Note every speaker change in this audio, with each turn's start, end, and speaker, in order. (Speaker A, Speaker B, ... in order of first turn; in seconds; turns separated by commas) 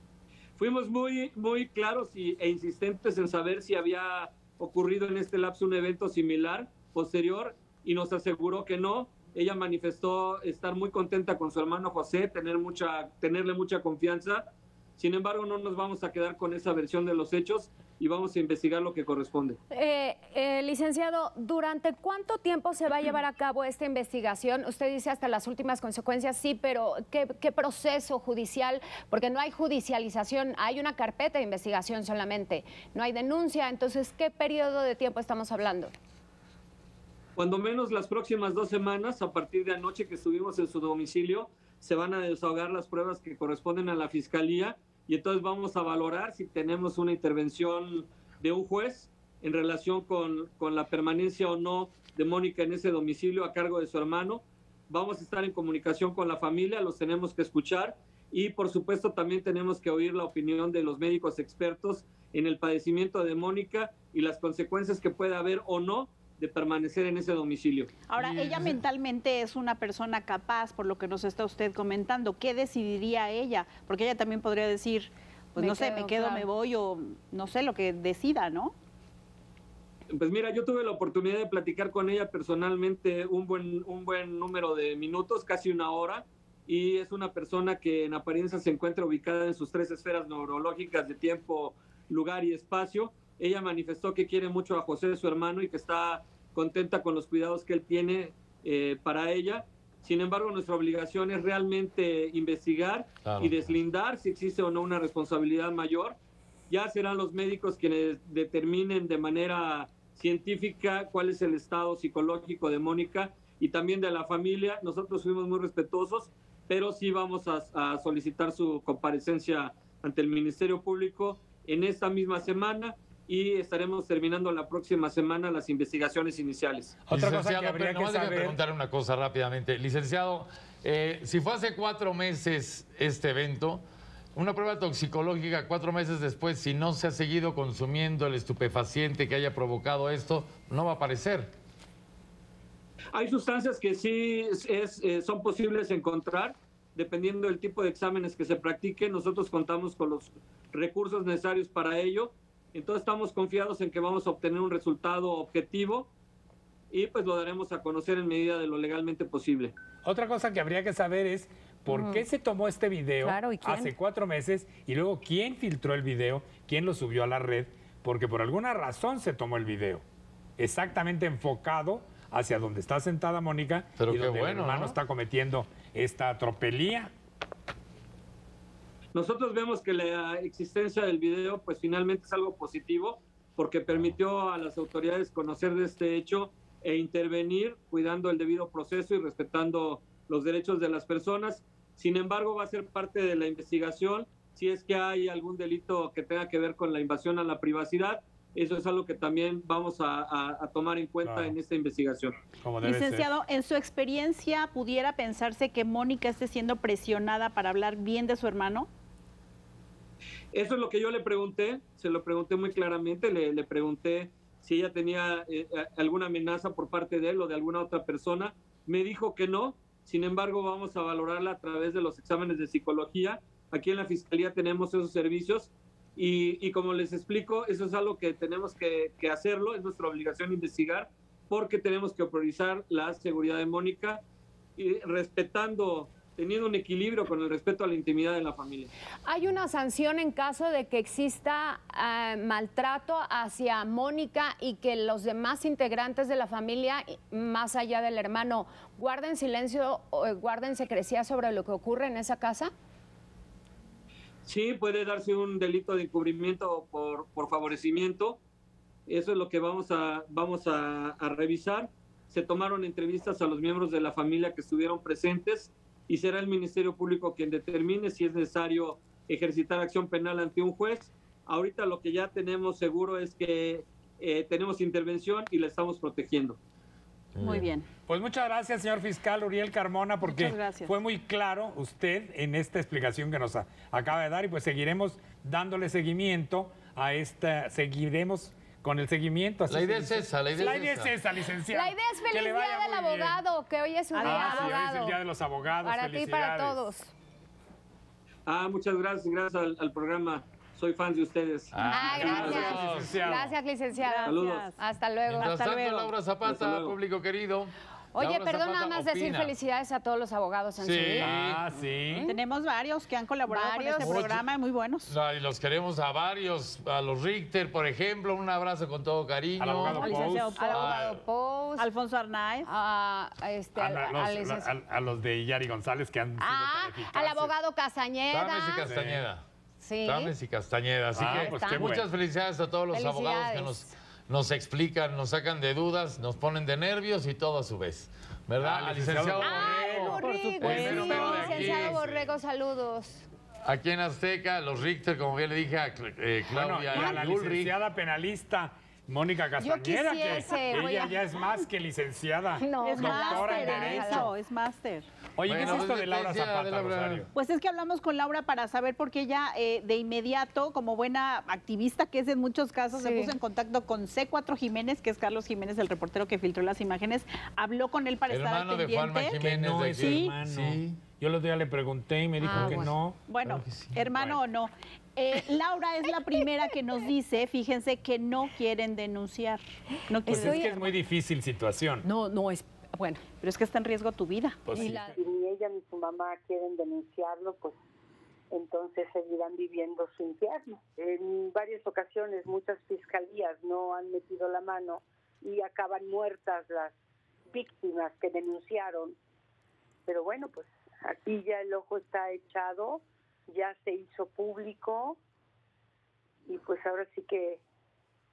Speaker A: 0.6-19.6, Speaker B: 19.7-35.9, Speaker A: 37.4-67.9, Speaker C: 68.1-78.7, Speaker B: 75.6-76.4, Speaker A: 80.1-106.2, Speaker D: 103.2-103.8, Speaker A: 106.7-126.9, Speaker E: 127.0-128.6, Speaker D: 127.1-133.8, Speaker D: 134.3-141.5, Speaker A: 143.1-156.1, Speaker A: 156.9-159.7, Speaker E: 160.0-170.0, Speaker B: 161.9-162.2, Speaker B: 163.2-163.9, Speaker E: 170.6-177.1, Speaker D: 174.0-175.0, Speaker A: 179.1-202.3, Speaker E: 201.2-201.6, Speaker E: 202.6-203.3, Speaker C: 202.8-208.9, Speaker A: 210.5-234.2, Speaker A: 234.8-238.9, Speaker B: 239.2-252.7, Speaker A: 254.4-258.4, Speaker A: 259.1-276.6, Speaker D: 277.3-277.7, Speaker C: 277.4-277.9, Speaker E: 278.1-293.4, Speaker C: 280.2-280.9, Speaker D: 289.7-291.1, Speaker B: 291.7-295.2, Speaker C: 294.1-294.8, Speaker E: 294.2-296.8, Speaker B: 295.8-297.1, Speaker A: 298.4-303.1, Speaker D: 301.7-303.5, Speaker B: 301.9-304.2, Speaker E: 302.1-303.5, Speaker C: 303.9-304.8, Speaker A: 304.2-304.7, Speaker B: 304.8-305.7, Speaker D: 305.3-309.5, Speaker C: 305.5-306.1, Speaker A: 306.4-307.0, Speaker B: 308.1-311.3, Speaker D: 310.8-311.6, Speaker E: 311.2-312.3, Speaker C: 312.2-315.1, Speaker B: 313.5-314.1, Speaker D: 314.0-314.4, Speaker D: 315.1-320.1, Speaker E: 319.6-320.5, Speaker C: 319.9-320.8, Speaker B: 320.6-321.8, Speaker D: 320.7-321.2, Speaker C: 321.7-322.7, Speaker B: 322.7-324.7, Speaker E: 323.8-327.5, Speaker B: 326.4-328.8, Speaker D: 328.3-329.4, Speaker E: 328.8-329.3, Speaker B: 329.8-330.3, Speaker D: 330.0-342.1, Speaker E: 331.1-332.1, Speaker B: 331.4-331.8, Speaker B: 332.9-333.8, Speaker E: 338.6-342.1, Speaker B: 339.4-343.2, Speaker D: 343.6-347.7, Speaker E: 346.5-354.3, Speaker B: 349.6-351.2, Speaker B: 352.6-354.2, Speaker C: 352.8-355.1, Speaker E: 355.4-357.3, Speaker D: 355.4-357.3, Speaker C: 357.3-369.4, Speaker B: 363.0-363.3, Speaker D: 368.3-371.0, Speaker E: 369.4-373.2, Speaker C: 370.0-370.3, Speaker B: 372.4-372.9, Speaker D: 372.5-374.0, Speaker C: 373.3-380.9, Speaker B: 380.2-380.7, Speaker E: 380.3-382.1, Speaker B: 382.1-383.2, Speaker C: 383.3-384.7, Speaker E: 384.8-385.1, Speaker B: 384.8-385.1, Speaker F: 385.1-387.7, Speaker F: 388.5-396.9, Speaker F: 397.5-399.1, Speaker F: 400.1-405.2, Speaker F: 406.5-407.6